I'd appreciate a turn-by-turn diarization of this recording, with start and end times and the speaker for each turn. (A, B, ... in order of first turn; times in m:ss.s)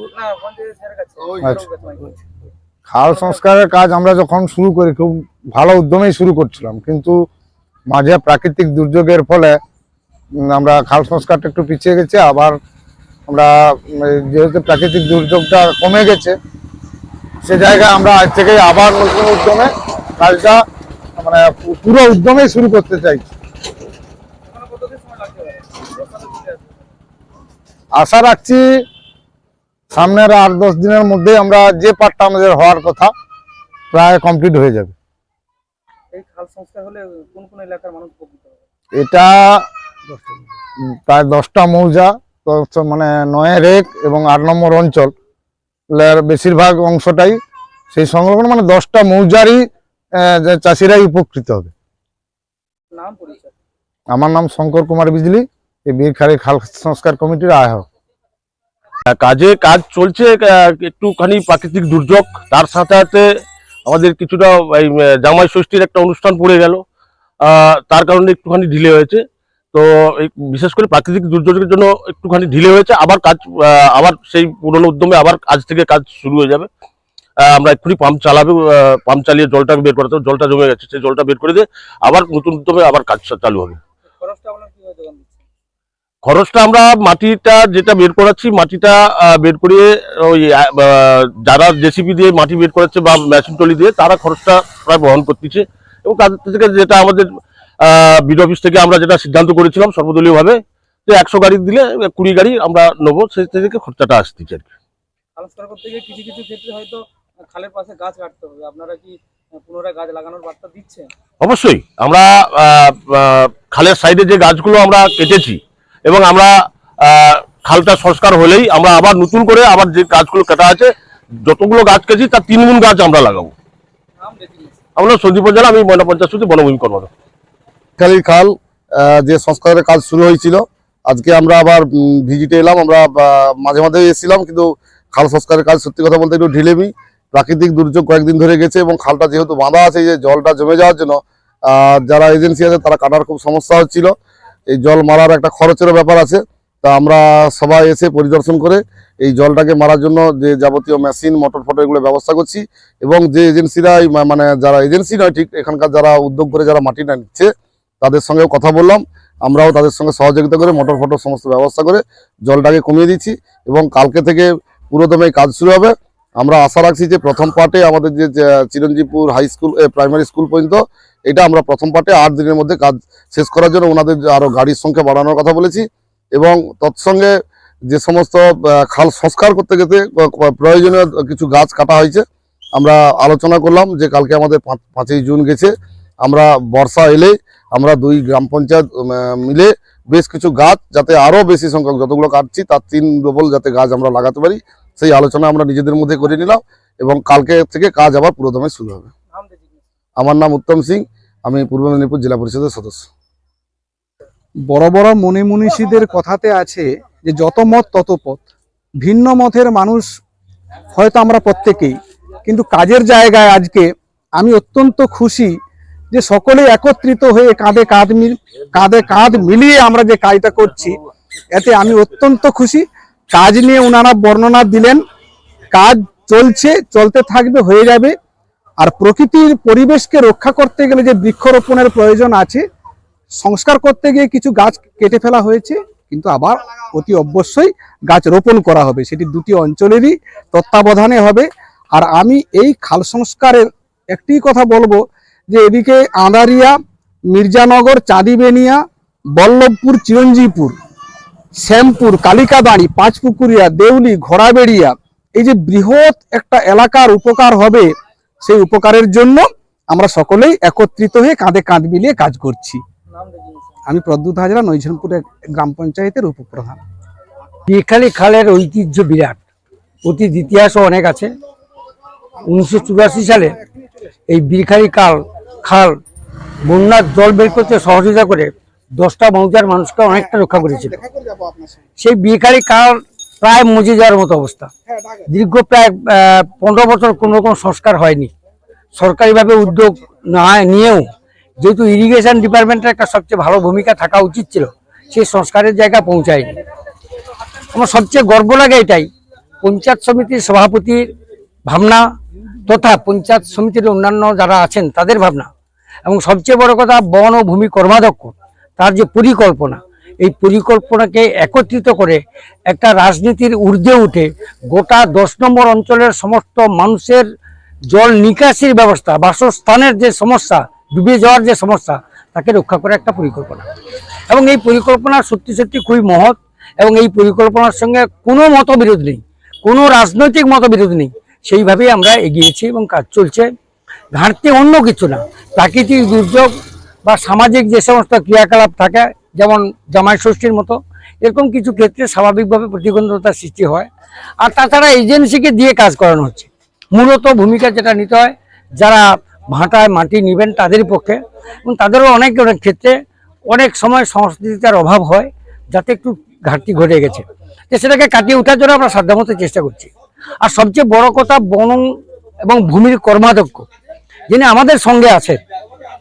0:00.2-0:02.0 A
0:02.9-0:07.2 B
0:07.9-0:09.6 B
0:10.5-0:12.6 B
0:13.3-0:16.3 B
0:17.4-0:20.6 B
0:21.2-0:23.3 B
0:24.5-0:26.7 A
0:27.9-0:28.6 B
0:29.9-0:33.1 B
0:33.9-0:34.9 B
0:36.1-0:38.6 A
0:39.0-0:39.6 B
0:40.9-0:45.1 B
0:45.9-0:47.4 B
0:47.9-0:49.6 B
0:50.2-0:51.7 B
0:52.9-0:53.5 A
0:54.1-0:57.8 B
0:59.1-1:03.2 C
1:03.8-1:06.8 C
1:07.4-1:16.7 C
1:17.4-1:23.8 C
1:24.2-1:25.4 A
1:26.2-1:37.2 C
1:37.8-1:44.7 C
1:45.4-1:51.1 A
1:51.4-2:00.9 C
2:01.4-2:03.5 C
2:04.2-2:04.8 A
2:05.0-2:07.1 C
2:08.0-2:21.2 D
2:21.7-2:24.1 D
2:24.7-2:37.5 D
2:38.0-2:55.8 D
2:56.3-2:57.3 D
2:57.9-3:02.2 D
3:02.8-3:05.7 D
3:06.2-3:19.1 D
3:20.2-3:23.1 D
3:24.7-3:28.5 E
3:29.0-3:30.1 E
3:30.9-3:31.9 E
3:32.4-3:35.5 E
3:36.1-3:41.0 E
3:41.5-3:45.0 E
3:45.7-3:48.1 E
3:48.8-3:52.6 E
3:53.4-4:06.7 E
4:07.3-4:08.8 E
4:09.4-4:10.7 E
4:11.6-4:17.9 E
4:18.4-4:22.8 E
4:23.1-4:23.7 A
4:23.8-4:26.8 E
4:27.7-4:29.4 F
4:30.0-4:31.3 F
4:32.4-4:33.6 F
4:34.3-4:36.0 F
4:36.6-4:41.0 F
4:40.6-4:41.6 E
4:42.0-4:44.7 F
4:45.3-4:48.3 F
4:48.9-4:51.1 F
4:51.6-4:56.6 F
4:57.7-4:59.1 F
4:59.6-5:01.0 F
5:01.7-5:02.0 F
5:02.6-5:05.5 F
5:06.0-5:17.2 F
5:17.9-5:23.6 F
5:24.3-5:33.5 F
5:34.1-5:36.5 F
5:37.0-5:43.9 F
5:44.4-5:53.0 F
5:53.5-5:59.9 F
6:00.4-6:01.8 F
6:02.4-6:03.6 F
6:04.3-6:05.4 F